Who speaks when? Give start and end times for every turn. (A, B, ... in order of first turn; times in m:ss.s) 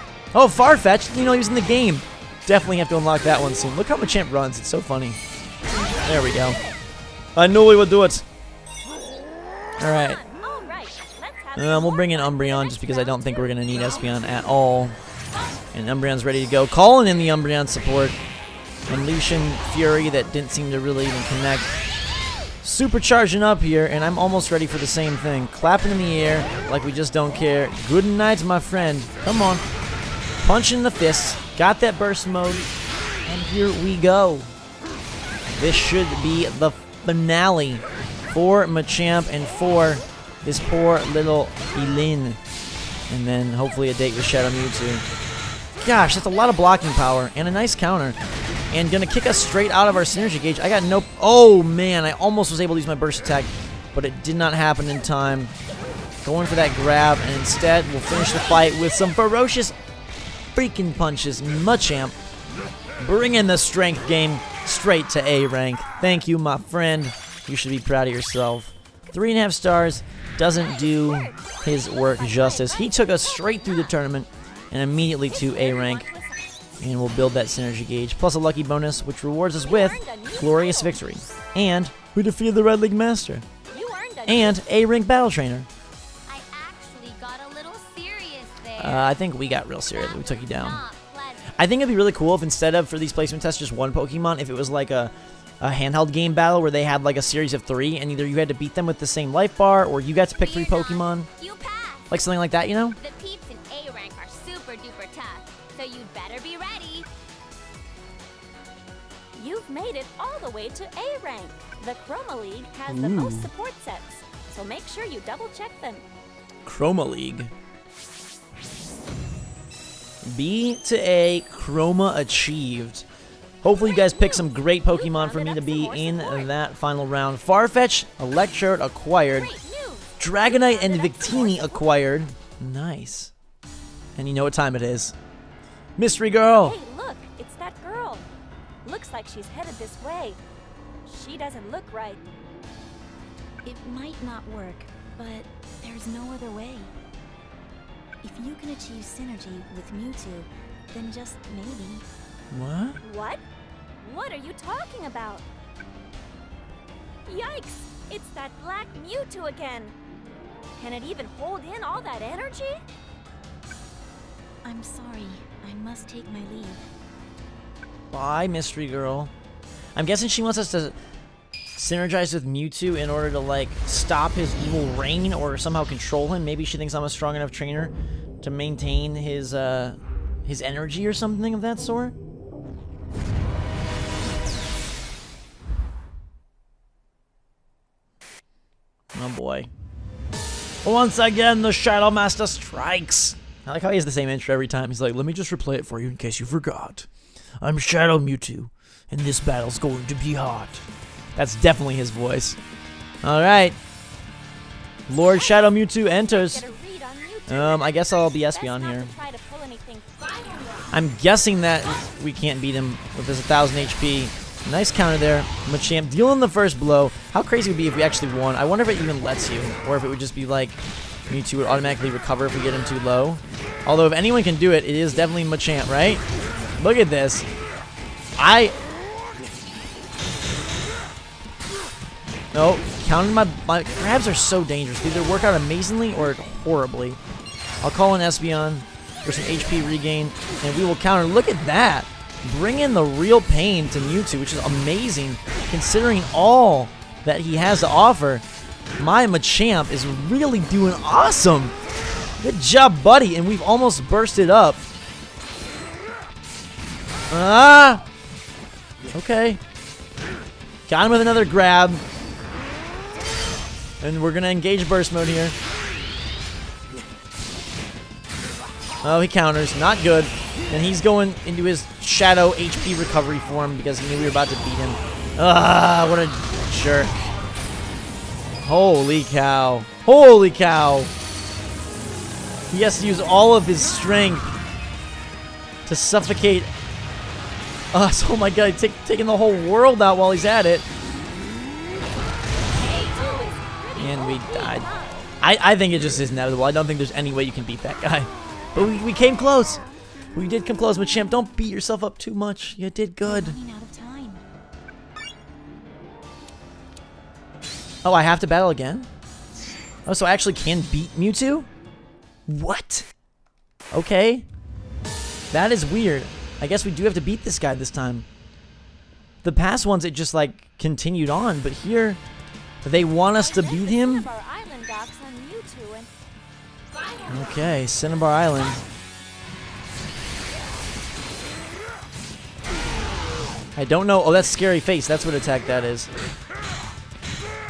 0:00.3-0:05.2 A
0:06.0-0:06.6 A
0:06.0-0:06.8 B
0:07.4-0:08.2 A
0:09.8-0:10.2 A
0:09.8-0:14.1 B
0:11.6-0:15.0 A
0:15.7-0:18.2 A
0:18.9-0:21.7 A
0:22.6-0:29.6 A
0:30.4-0:32.7 A
0:33.3-0:34.5 A
0:35.6-0:42.4 A
0:43.1-0:45.0 A
0:45.8-0:48.2 A
0:48.7-0:55.5 A
0:56.2-0:59.8 A
1:00.5-1:02.2 A
1:03.0-1:16.1 A
1:11.8-1:14.0 B
1:15.3-1:16.4 B
1:16.8-1:23.4 A
1:19.6-1:21.0 B
1:23.7-1:24.6 B
1:24.3-1:25.7 A
1:26.3-1:29.2 C
1:28.8-1:30.8 A
1:29.9-1:31.4 C
1:31.6-1:41.3 A
1:40.4-1:42.1 C
1:42.1-1:43.0 A
1:43.0-1:47.1 C
1:49.4-1:56.0 B
1:52.9-1:53.5 A
1:56.6-1:57.5 A
2:00.2-2:03.0 A
2:03.6-2:09.5 A
2:03.8-2:06.5 B
2:09.3-2:11.9 B
2:10.2-2:13.3 A
2:14.2-2:15.1 A
2:16.0-2:16.8 A
2:16.5-2:18.3 B
2:18.8-2:20.4 B
2:21.1-2:22.2 B
2:23.6-2:26.9 D
2:28.2-2:32.0 D
2:32.5-2:33.0 A
2:33.0-2:33.4 B
2:34.0-2:35.5 B
2:37.3-2:40.0 B
2:40.8-2:42.8 B
2:44.6-2:46.9 D
2:48.1-2:49.3 A
2:50.0-2:51.0 A
2:51.8-3:02.2 A
3:09.1-3:09.7 A
3:10.8-3:17.1 A
3:17.6-3:22.6 A
3:23.2-3:23.8 A
3:25.1-3:26.7 A
3:26.1-3:30.7 B
3:27.5-3:29.1 A
3:30.9-3:46.2 A
3:46.8-3:47.5 A
3:48.4-3:48.8 A
3:52.5-3:57.2 A
3:57.8-4:08.4 A
4:09.0-4:11.8 A
4:12.4-4:14.8 A
4:17.3-4:18.0 A
4:19.1-4:19.6 A
4:20.9-4:22.0 A
4:24.0-4:25.6 A
4:29.0-4:37.3 A
4:38.6-4:41.1 A
4:42.7-4:44.5 A
4:45.9-4:46.7 A
4:47.9-4:50.9 A
4:52.7-4:55.3 B
4:54.0-4:54.9 A
4:55.4-4:59.8 A
5:00.3-5:03.6 A
5:03.2-5:04.4 D
5:08.0-5:09.1 A
5:10.1-5:11.7 A
5:12.5-5:13.1 A
5:13.9-5:14.5 A
5:15.5-5:18.3 A
5:19.4-5:22.2 A
5:22.8-5:24.3 A
5:23.4-5:26.1 B
5:27.3-5:28.8 A
5:33.8-5:36.1 A